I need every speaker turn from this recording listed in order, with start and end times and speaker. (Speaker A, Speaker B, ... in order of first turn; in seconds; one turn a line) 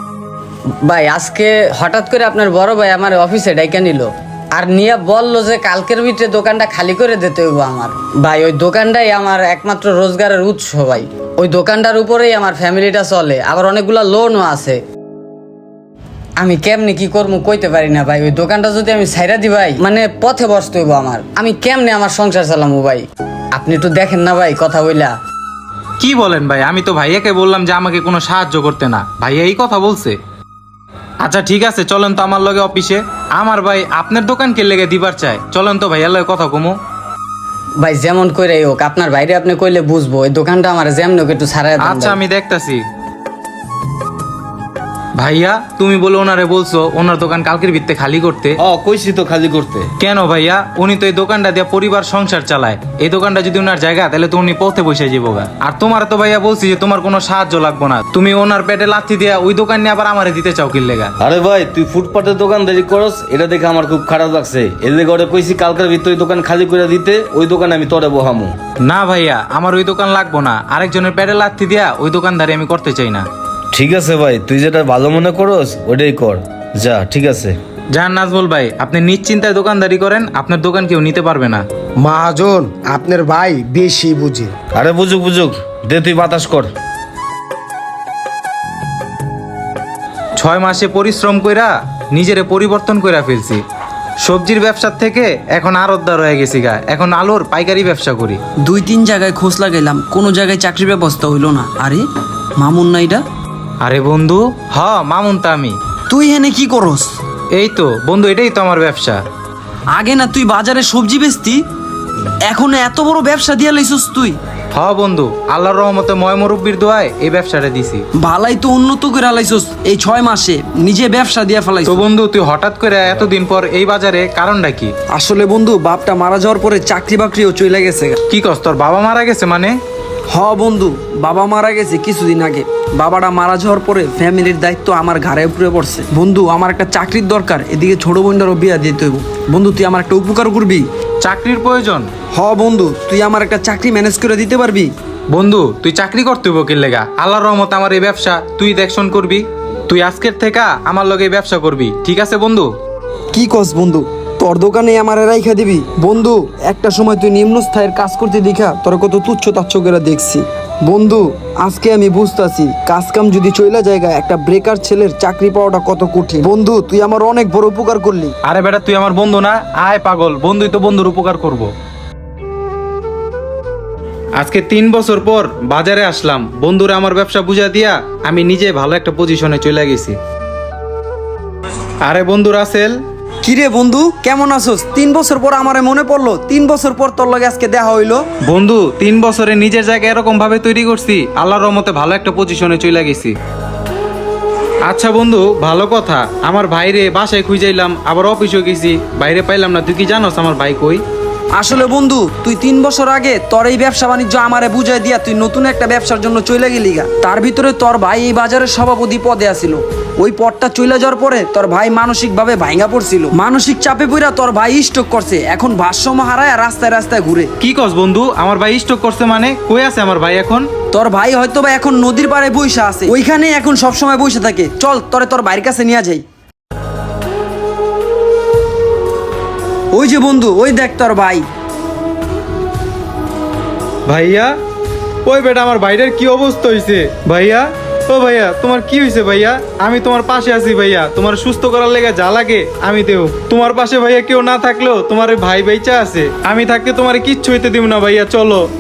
Speaker A: 0.8-14.8
Speaker A: 16.4-25.1
Speaker B: 26.0-30.2
Speaker B: 31.2-36.8
Speaker A: 37.8-42.2
Speaker B: 41.8-42.8
Speaker B: 45.2-48.6
Speaker C: 48.6-49.9
Speaker B: 50.0-61.1
Speaker C: 61.2-68.5
Speaker B: 68.8-73.2
Speaker C: 73.7-77.6
Speaker B: 77.9-81.6
Speaker D: 82.0-84.5
Speaker C: 84.8-86.7
Speaker B: 90.4-93.6
Speaker B: 94.2-98.4
Speaker E: 98.6-102.1
Speaker E: 102.6-103.2
Speaker B: 103.8-105.8
Speaker E: 106.1-107.2
Speaker B: 107.5-109.2
Speaker E: 109.9-111.6
Speaker E: 112.4-114.4
Speaker B: 114.7-118.0
Speaker E: 118.2-122.0
Speaker B: 121.9-124.9
Speaker E: 125.1-128.2
Speaker B: 128.3-129.8
Speaker E: 130.3-140.9
Speaker B: 141.2-142.1
Speaker E: 142.3-144.9
Speaker B: 145.3-152.7
Speaker E: 153.3-168.3
Speaker B: 168.4-171.7
Speaker B: 174.4-180.2
Speaker B: 182.0-183.0
Speaker E: 183.4-188.2
Speaker B: 188.4-193.3
Speaker B: 194.8-201.0
Speaker E: 201.5-217.5
Speaker B: 217.6-220.7
Speaker E: 220.9-226.2
Speaker E: 229.9-231.5
Speaker B: 234.1-234.5
Speaker B: 235.3-248.7